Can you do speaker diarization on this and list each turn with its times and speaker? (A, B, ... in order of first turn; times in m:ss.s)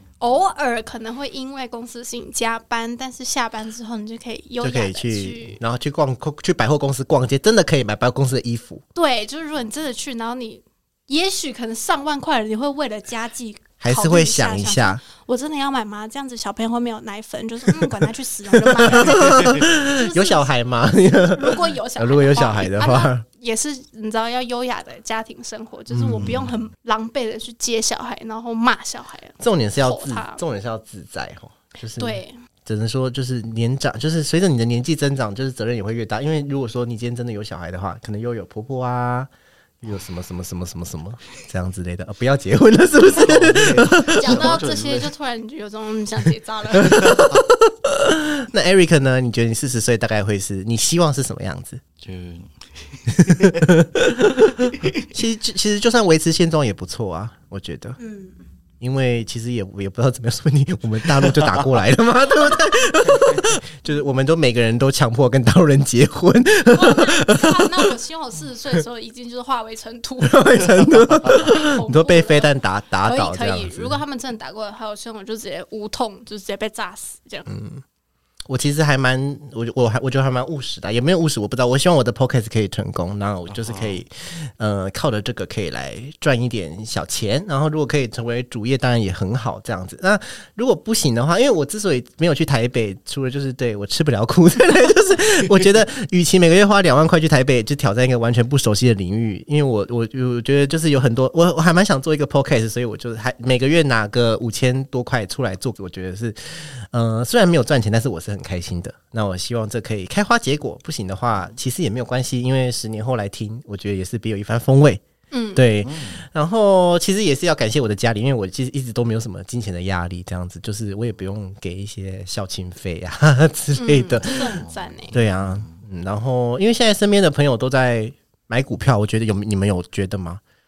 0:00.2-0:05.6 A
0:04.6-0:08.8 B
0:09.0-0:20.5 A
0:13.8-0:15.0 B
0:17.7-0:23.2 B
0:21.3-0:30.4 A
0:25.9-0:26.5 C
0:29.4-0:39.3 B
0:32.0-0:32.4 A
0:39.8-0:44.6 B
0:43.0-0:45.1 C
0:44.0-0:47.3 A
0:46.7-0:51.8 B
0:52.0-0:53.8 C
0:53.1-0:58.0 B
0:54.5-0:55.0 C
0:58.0-0:58.4 A
0:58.8-1:07.9 B
1:01.2-1:01.6 C
1:03.0-1:03.6 C
1:06.7-1:10.8 A
1:10.2-1:14.0 B
1:10.8-1:11.4 C
1:11.3-1:12.5 A
1:13.0-1:17.5 A
1:17.5-1:17.8 B
1:18.5-1:55.0 B
1:23.5-1:24.0 C
1:55.3-1:55.7 A
1:55.6-2:10.4 B
1:55.8-1:56.2 C
2:03.8-2:05.1 A
2:04.3-2:05.8 C